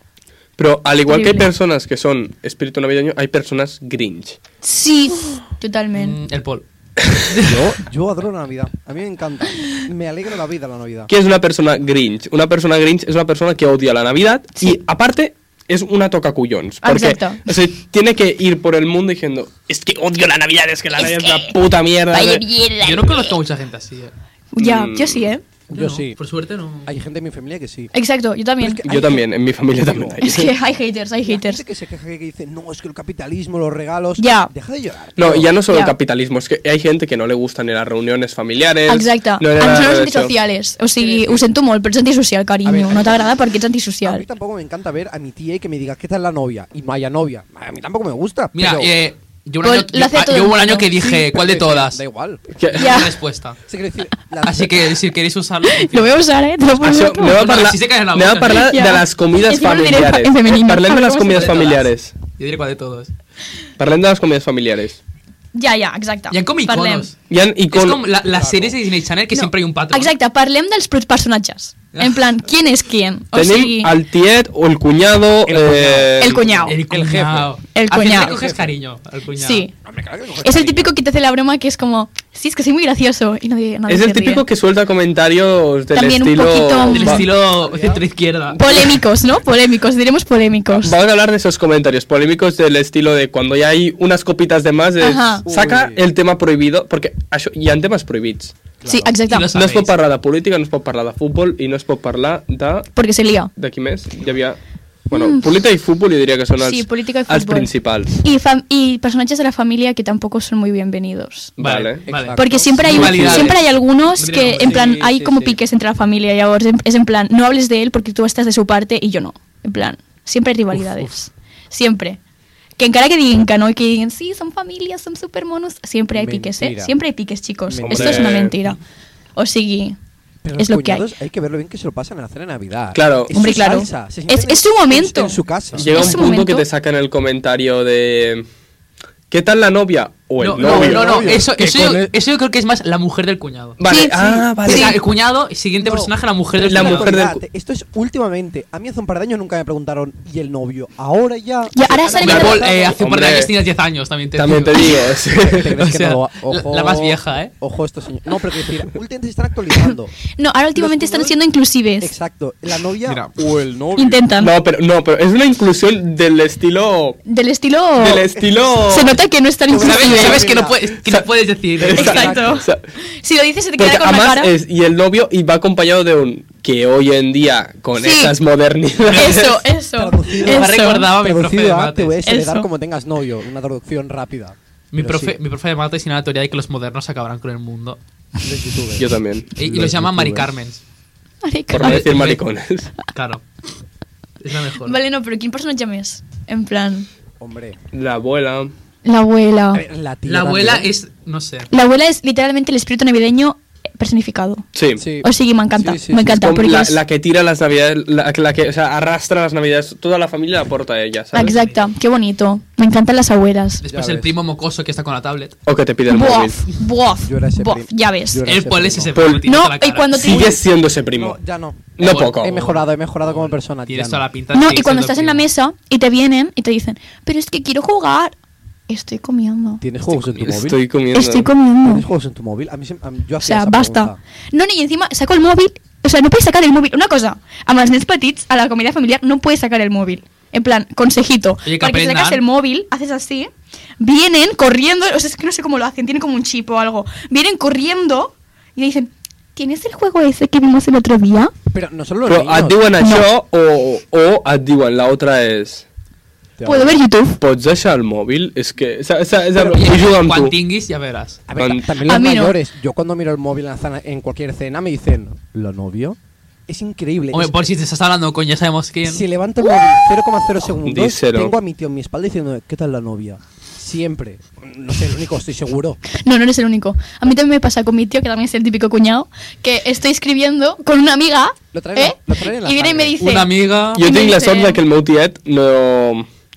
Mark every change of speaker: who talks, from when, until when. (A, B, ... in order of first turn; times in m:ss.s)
0:00.6-0:04.4 A
0:01.1-0:01.5 B
0:04.6-0:06.2 B
0:06.0-0:06.6 C
0:07.2-0:07.7 C
0:07.4-0:11.1 D
0:11.1-0:22.4 A
0:16.8-0:17.5 B
0:21.0-0:21.6 B
0:22.1-0:23.4 B
0:22.8-0:24.1 C
0:24.5-0:25.4 B
0:24.6-0:25.3 A
0:25.7-0:26.2 D
0:25.7-0:26.9 C
0:26.8-0:27.9 D
0:27.9-0:29.1 B
0:28.6-0:30.4 D
0:28.8-0:30.6 A
0:30.2-0:31.6 B
0:31.2-0:35.5 D
0:34.2-0:34.5 B
0:35.2-0:40.4 A
0:35.7-0:35.9 B
0:38.9-0:44.2 B
0:41.0-0:41.5 D
0:42.6-0:43.4 D
0:44.0-0:49.0 D
0:48.6-0:52.0 C
0:49.6-0:50.9 B
0:51.0-0:52.4 D
0:52.6-0:53.0 A
0:52.7-0:53.6 C
0:52.8-0:53.2 B
0:53.7-0:55.0 D
0:54.4-0:56.2 C
0:55.7-0:57.4 B
0:56.8-1:02.1 A
0:57.2-0:58.8 C
0:58.5-1:01.6 B
1:01.3-1:03.1 C
1:03.8-1:05.0 A
1:05.5-1:07.1 B
1:06.3-1:10.1 C
1:07.3-1:08.0 A
1:08.2-1:08.8 D
1:09.3-1:14.0 B
1:11.9-1:12.2 C
1:13.3-1:16.4 A
1:15.4-1:17.5 D
1:16.2-1:16.8 B
1:16.7-1:19.7 C
1:17.7-1:18.3 B
1:18.1-1:18.8 D
1:19.4-1:19.7 B
1:19.8-1:21.0 D
1:20.4-1:24.4 B
1:23.9-1:27.3 A
1:25.9-1:27.3 B
1:26.9-1:28.6 C
1:27.4-1:28.0 D
1:28.5-1:29.0 A
1:28.6-1:31.0 B
1:30.7-1:38.6 A
1:35.0-1:35.4 B
1:35.5-1:36.0 D
1:38.8-1:39.2 D
1:38.8-1:39.5 B
1:39.3-1:39.9 C
1:39.5-1:42.9 A
1:43.0-1:43.5 B
1:43.6-1:44.6 A
1:45.1-1:48.1 A
1:45.1-1:45.4 B
1:46.6-1:51.5 B
1:51.6-1:52.1 A
1:51.6-1:55.0 C
1:52.1-1:53.5 D
1:52.4-2:02.2 B
1:52.8-1:53.5 A
1:54.6-1:55.6 D
2:02.8-2:08.8 B
2:06.1-2:07.0 D
2:07.7-2:08.5 D
2:07.8-2:08.6 A
2:09.4-2:10.0 B
2:10.4-2:16.3 D
2:10.6-2:11.1 B
2:12.9-2:13.3 A
2:13.3-2:16.7 B
2:15.7-2:16.1 C
2:15.8-2:18.4 A
2:19.3-2:21.4 A
2:20.4-2:23.8 C
2:20.6-2:22.1 D
2:23.8-2:25.0 A
2:23.8-2:25.0 B
2:24.6-2:27.1 C
2:25.8-2:33.0 D
2:26.6-2:27.4 A
2:31.7-2:32.6 B
2:32.2-2:35.0 C
2:32.2-2:33.5 A
2:34.4-2:35.8 A
2:35.4-2:40.2 D
2:35.6-2:37.5 C
2:39.9-2:42.1 B
2:40.8-2:41.4 D
2:42.0-2:44.2 D
2:43.1-2:43.3 C
2:44.0-2:44.5 B
2:44.3-2:47.2 A
2:47.2-2:50.5 B
2:48.0-2:49.2 A
2:49.7-2:50.8 D
2:49.8-2:52.3 C
2:51.8-2:52.8 A
2:51.8-2:52.7 D
2:52.0-2:54.5 B
2:53.8-2:59.6 A
2:58.0-2:58.4 B
2:59.1-2:59.4 C
2:59.1-3:01.1 B
2:59.9-3:05.4 D
3:00.4-3:02.2 C
3:02.2-3:02.7 B
3:04.9-3:08.0 C
3:08.4-3:10.5 D
3:09.0-3:09.5 A
3:09.6-3:10.8 C
3:11.4-3:12.2 B
3:11.7-3:12.9 A
3:11.8-3:12.4 C
3:13.0-3:13.4 C
3:14.4-3:15.0 C
3:14.8-3:17.1 B
3:17.4-3:17.8 D
3:17.9-3:18.7 A
3:19.0-3:19.8 B
3:19.7-3:20.9 D
3:20.2-3:21.7 C
3:21.7-3:24.6 B
3:24.7-3:25.0 A
3:25.0-3:26.5 D
3:25.2-3:27.0 B
3:26.2-3:31.7 A
3:31.3-3:33.8 B
3:33.8-3:35.6 C
3:33.9-3:34.4 D
3:35.7-3:36.6 A
3:36.1-3:38.4 B
3:37.2-3:39.2 D
3:38.4-3:40.4 C
3:39.2-3:39.5 A
3:39.5-3:40.6 B
3:40.1-3:41.4 A
3:41.1-3:44.3 D
3:42.0-3:42.7 A
3:42.0-3:45.5 C
3:44.5-3:48.4 B
3:48.9-3:49.8 B
3:49.8-3:50.8 D
3:50.1-3:51.5 A
3:51.1-3:52.0 B
3:51.8-3:54.2 D
3:53.4-4:11.5 B
4:01.7-4:02.4 C
4:11.7-4:12.9 D
4:12.2-4:15.9 A
4:13.0-4:13.3 B
4:16.6-4:17.0 D
4:16.6-4:17.4 B
4:17.4-4:20.6 A
4:19.6-4:21.4 C
4:21.5-4:27.5 D
4:21.6-4:21.9 A
4:22.0-4:22.6 B
4:27.3-4:29.2 C
4:29.0-4:36.0 D
4:30.8-4:31.5 A
4:36.2-4:44.8 B
4:41.7-4:43.4 D
4:43.2-4:44.0 C
4:44.0-4:46.3 A